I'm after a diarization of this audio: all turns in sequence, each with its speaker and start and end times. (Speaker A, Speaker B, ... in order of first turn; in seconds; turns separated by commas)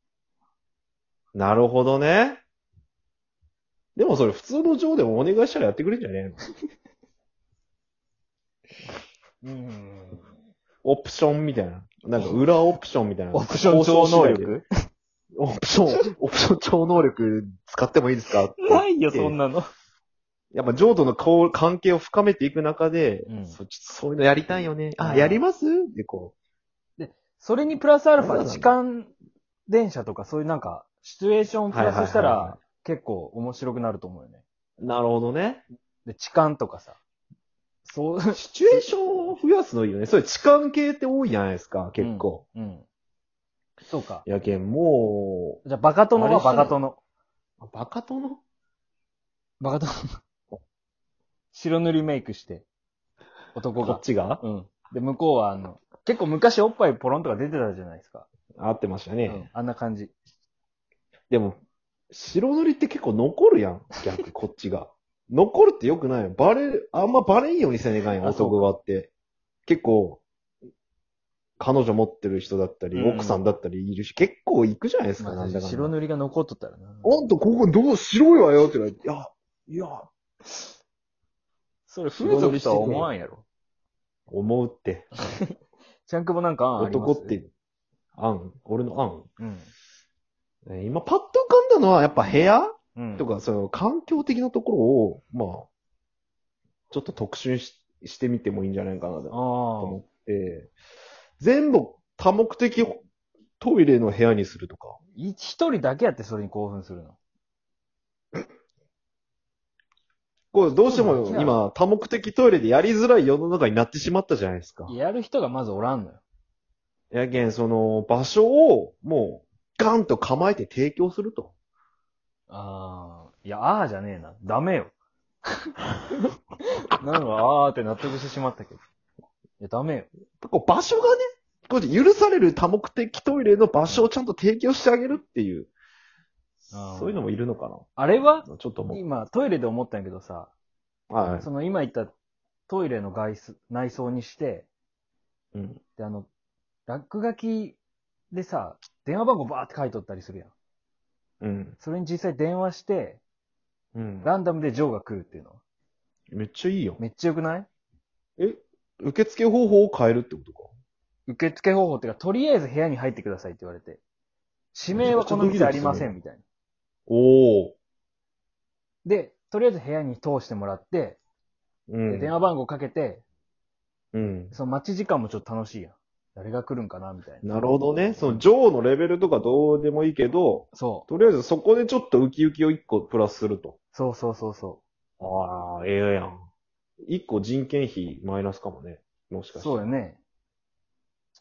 Speaker A: 1.3-2.4, Speaker A: 4.0-6.4, Speaker B: 9.4-10.3, Speaker A: 10.8-14.6, Speaker B: 13.3-14.7, Speaker A: 15.3-19.4, Speaker B: 18.6-19.7, Speaker A: 20.5-26.3, Speaker B: 23.3-23.6, Speaker B: 25.0-25.4, Speaker B: 27.0-29.1, Speaker A: 28.2-28.8, Speaker B: 29.7-34.4, Speaker A: 31.7-32.6, Speaker A: 34.8-35.6, Speaker B: 36.0-37.0, Speaker B: 37.8-38.4, Speaker A: 38.3-42.4, Speaker B: 42.0-42.9, Speaker B: 43.9-44.2, Speaker A: 44.2-45.6, Speaker B: 45.6-47.0, Speaker A: 46.1-46.8, Speaker A: 47.6-48.4, Speaker B: 49.6-50.0, Speaker B: 51.5-52.6, Speaker B: 53.5-58.3, Speaker A: 53.8-54.4, Speaker A: 58.6-59.5, Speaker B: 59.2-60.1, Speaker A: 61.3-69.1, Speaker B: 68.2-68.6, Speaker A: 69.7-70.2, Speaker A: 71.6-75.9, Speaker B: 72.9-73.4, Speaker B: 75.2-77.2, Speaker A: 77.0-80.1, Speaker B: 81.9-83.4, Speaker A: 82.1-83.1, Speaker A: 84.3-85.1, Speaker B: 86.1-87.4, Speaker A: 86.8-87.5, Speaker A: 88.1-89.3, Speaker B: 89.4-89.7, Speaker A: 90.7-95.7, Speaker B: 93.0-93.2, Speaker A: 96.9-100.7, Speaker B: 99.3-100.0, Speaker A: 101.4-103.0, Speaker A: 103.6-105.0, Speaker B: 105.2-107.2, Speaker A: 110.5-114.9, Speaker B: 110.9-111.5, Speaker B: 114.9-116.2, Speaker A: 117.1-121.5, Speaker B: 122.5-124.9, Speaker B: 126.9-128.8, Speaker B: 129.6-130.1, Speaker A: 130.4-135.7, Speaker B: 136.7-137.2, Speaker A: 136.9-137.9, Speaker B: 137.9-140.5, Speaker A: 138.4-139.0, Speaker A: 141.1-141.5, Speaker B: 141.4-142.1, Speaker B: 142.7-144.7, Speaker A: 145.5-145.8, Speaker B: 146.0-146.3, Speaker B: 146.9-147.8, Speaker B: 148.3-150.5, Speaker A: 151.4-151.8, Speaker B: 151.8-153.2, Speaker A: 153.9-154.3, Speaker B: 154.2-155.6, Speaker A: 156.3-157.0, Speaker B: 157.0-157.7, Speaker A: 158.4-160.7, Speaker B: 161.3-164.0, Speaker B: 164.7-166.4, Speaker A: 164.9-166.1, Speaker A: 167.1-167.8, Speaker B: 169.0-171.2, Speaker A: 171.9-172.3, Speaker B: 172.1-173.2, Speaker A: 174.1-174.5, Speaker B: 174.5-177.4, Speaker A: 177.4-183.8, Speaker B: 178.2-178.4, Speaker B: 180.7-181.1, Speaker B: 183.9-184.8, Speaker A: 185.2-186.4, Speaker A: 187.1-189.9, Speaker B: 189.5-190.2